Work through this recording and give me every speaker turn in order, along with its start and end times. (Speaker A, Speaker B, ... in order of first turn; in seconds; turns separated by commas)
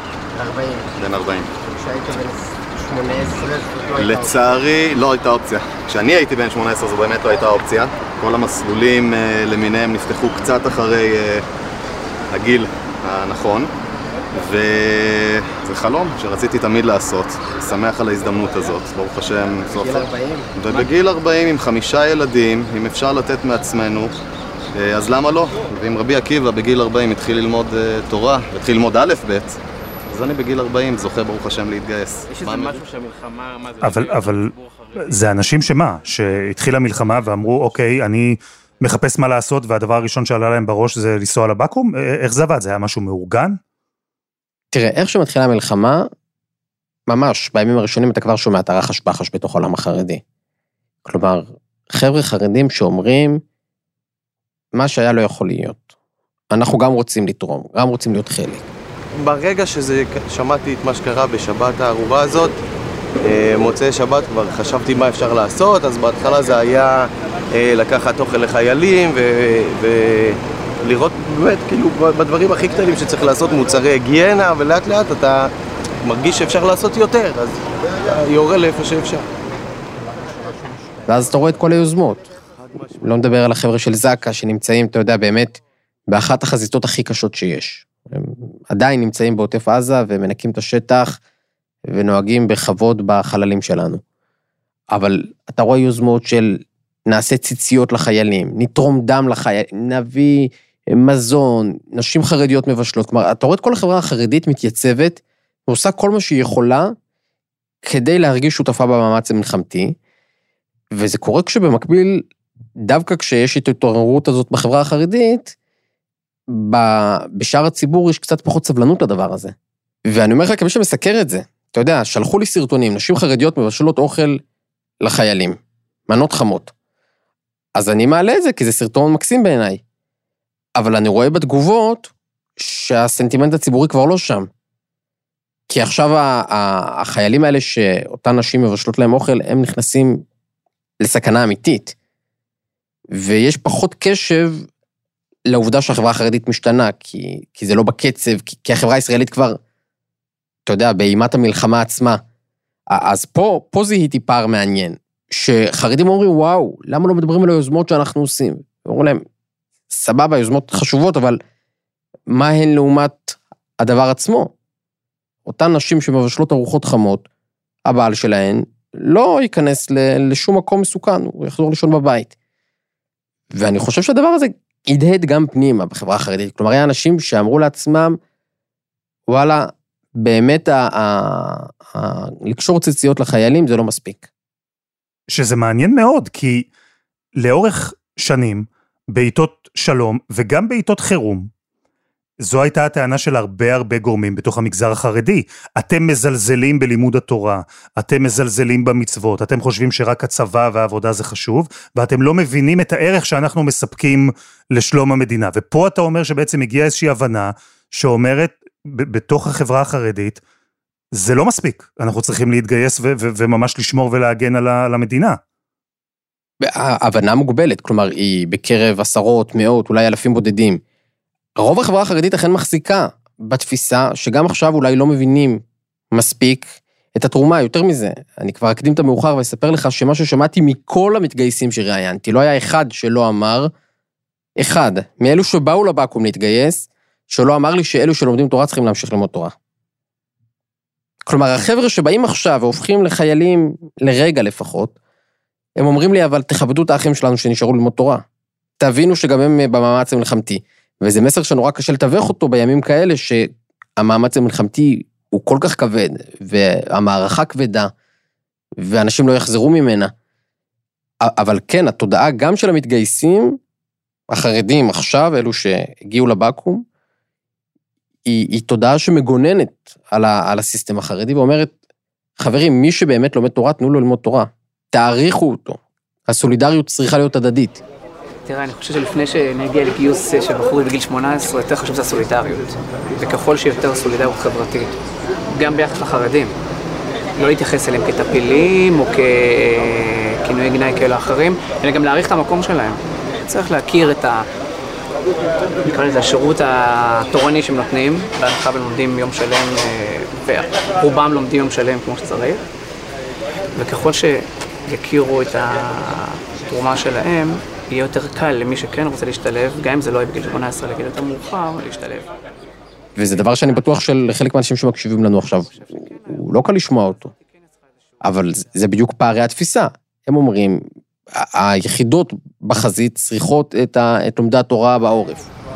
Speaker A: 0.3-0.9, Speaker B: 0.9-1.5, Speaker A: 1.7-4.3, Speaker B: 4.0-11.4, Speaker B: 12.3-13.7, Speaker B: 14.3-24.1, Speaker A: 19.7-20.9, Speaker B: 24.7-29.6, Speaker B: 30.1-32.8, Speaker C: 32.9-33.5, Speaker D: 33.8-43.6, Speaker A: 44.7-46.1, Speaker A: 47.1-50.2, Speaker A: 51.0-53.4, Speaker A: 54.7-55.9, Speaker A: 56.5-58.7, Speaker C: 59.2-62.6, Speaker C: 63.2-75.5, Speaker C: 76.0-79.3, Speaker A: 81.0-82.3, Speaker C: 82.6-82.9, Speaker A: 82.9-91.2, Speaker A: 91.9-94.0, Speaker A: 94.9-106.9, Speaker A: 107.8-110.0, Speaker A: 110.9-112.2, Speaker A: 112.8-115.5, Speaker A: 116.5-119.5, Speaker A: 120.1-124.4, Speaker A: 125.0-126.7, Speaker A: 127.8-129.8, Speaker A: 130.8-134.5, Speaker A: 135.7-140.2, Speaker A: 141.0-141.9, Speaker A: 143.1-144.7, Speaker A: 145.5-149.6, Speaker A: 150.7-152.2, Speaker A: 152.9-159.2, Speaker A: 159.9-161.4, Speaker A: 162.3-164.5, Speaker A: 165.4-167.2, Speaker A: 167.8-172.3, Speaker A: 173.5-178.2, Speaker A: 179.3-184.3, Speaker D: 185.3-186.7, Speaker D: 187.4-191.5, Speaker D: 192.4-210.4, Speaker D: 211.1-215.4, Speaker A: 216.6-220.8, Speaker A: 221.6-233.7, Speaker A: 234.6-239.5, Speaker A: 241.2-244.9, Speaker A: 245.8-248.2, Speaker A: 248.8-257.9, Speaker A: 258.8-260.1, Speaker A: 261.2-263.6, Speaker A: 264.3-266.8, Speaker A: 268.3-271.7, Speaker A: 272.4-277.8, Speaker E: 278.4-284.9, Speaker E: 285.5-286.5, Speaker E: 287.4-294.4, Speaker E: 295.8-302.6, Speaker E: 303.8-312.3, Speaker A: 313.1-317.3, Speaker A: 318.2-325.4